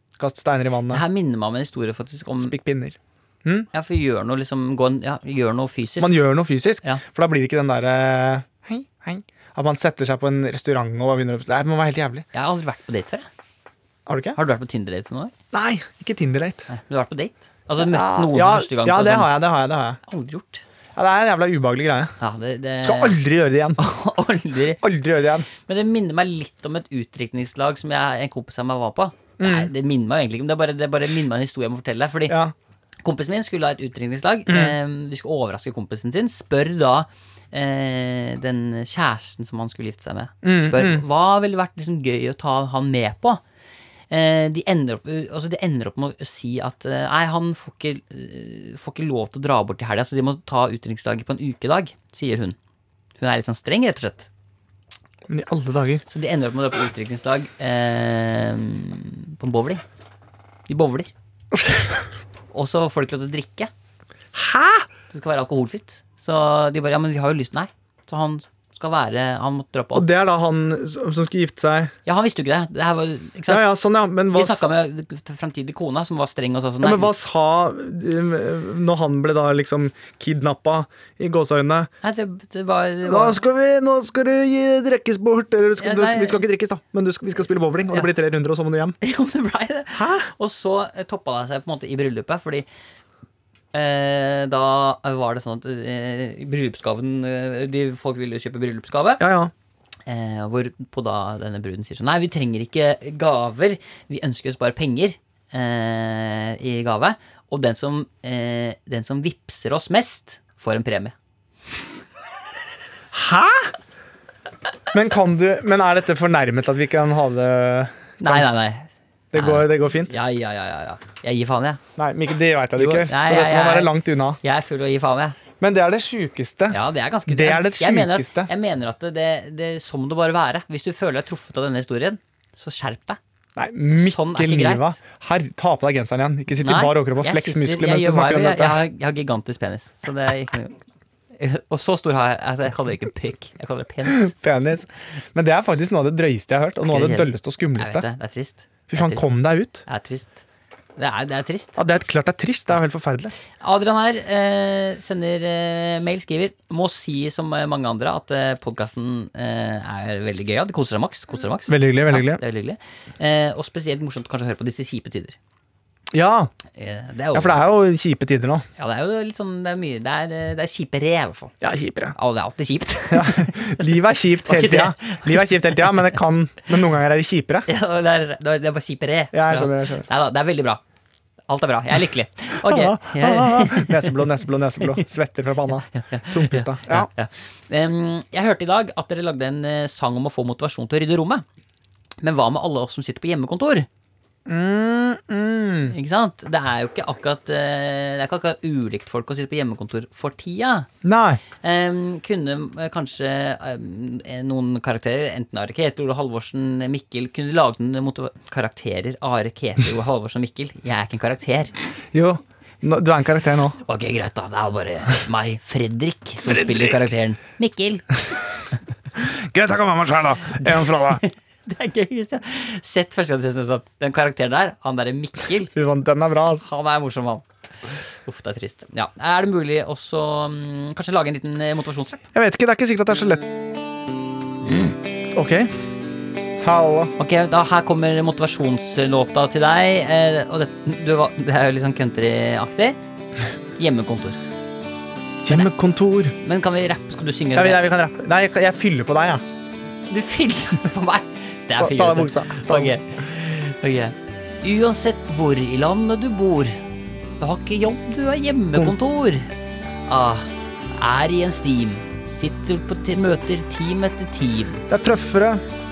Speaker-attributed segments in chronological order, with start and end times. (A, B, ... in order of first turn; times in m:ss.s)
0:00.2-0:01.0 A
0:00.9-0:02.5 B
0:02.4-0:03.7 A
0:03.7-0:06.2 B
0:06.0-0:12.2 A
0:12.3-0:13.3 B
0:14.1-0:14.4 A
0:14.4-0:15.3 B
0:15.5-0:16.7 A
0:16.7-0:19.3 B
0:17.8-0:20.0 A
0:20.0-0:20.6 B
0:21.0-0:22.1 A
0:22.2-0:23.2 B
0:22.8-0:23.8 A
0:23.8-0:24.8 B
0:24.8-0:25.5 A
0:25.6-0:32.4 B
0:29.4-0:29.7 A
0:32.3-0:32.5 A
0:33.0-0:43.4 B
0:34.5-0:34.8 A
0:40.4-0:41.0 A
0:44.1-0:52.6 B
0:53.1-0:54.3 B
0:55.3-0:56.0 A
0:56.1-0:59.8 B
1:00.7-1:01.1 B
1:02.5-1:03.7 B
1:04.3-1:04.9 A
1:05.1-1:10.1 B
1:09.9-1:11.9 A
1:12.0-1:13.6 B
1:13.5-1:14.6 A
1:14.3-1:17.1 B
1:16.8-1:21.9 A
1:22.0-1:23.4 B
1:23.0-1:29.0 A
1:25.8-1:26.4 B
1:29.0-1:32.7 B
1:29.9-1:30.3 A
1:33.7-1:39.2 B
1:39.2-1:39.5 A
1:40.1-1:51.1 B
1:53.1-1:53.7 A
1:54.9-1:58.5 A
1:58.2-2:01.8 B
1:59.3-2:00.1 A
2:02.0-2:04.4 A
2:02.8-2:05.4 B
2:05.6-2:08.5 A
2:06.7-2:13.2 B
2:13.6-2:18.8 A
2:13.9-2:14.9 B
2:16.6-2:20.8 B
2:21.4-2:24.3 B
2:24.0-2:28.0 A
2:26.9-2:29.2 B
2:28.9-2:29.8 A
2:29.8-2:30.4 B
2:31.0-2:31.8 B
2:31.8-2:33.3 A
2:33.6-2:45.4 B
2:41.7-2:42.4 A
2:46.1-2:46.5 A
2:46.8-2:47.6 B
2:47.3-2:48.6 A
2:48.8-2:51.5 B
2:51.6-2:52.1 A
2:52.1-2:53.8 B
2:53.1-2:57.7 A
2:54.4-2:56.1 B
2:57.7-3:00.8 B
2:59.3-3:00.1 A
3:01.5-3:04.3 B
3:02.6-3:07.1 A
3:05.9-3:11.4 B
3:12.2-3:13.9 B
3:14.5-3:15.9 A
3:15.9-3:20.9 B
3:21.0-3:21.4 A
3:21.6-3:31.7 B
3:32.1-3:33.8 A
3:33.8-3:38.2 B
3:36.4-3:37.0 A
3:39.2-3:41.2 A
3:40.8-3:45.7 B
3:45.7-3:46.7 A
3:46.6-3:52.2 B
3:52.3-3:53.5 A
3:54.6-3:55.0 B
3:55.3-3:55.7 A
3:56.6-3:57.1 A
3:57.2-4:03.0 B
4:03.8-4:04.4 B
4:05.4-4:06.3 A
4:06.4-4:07.8 B
4:07.5-4:09.4 A
4:10.1-4:16.8 B
4:11.8-4:13.0 A
4:17.4-4:19.5 B
4:20.1-4:24.8 B
4:24.9-4:25.6 A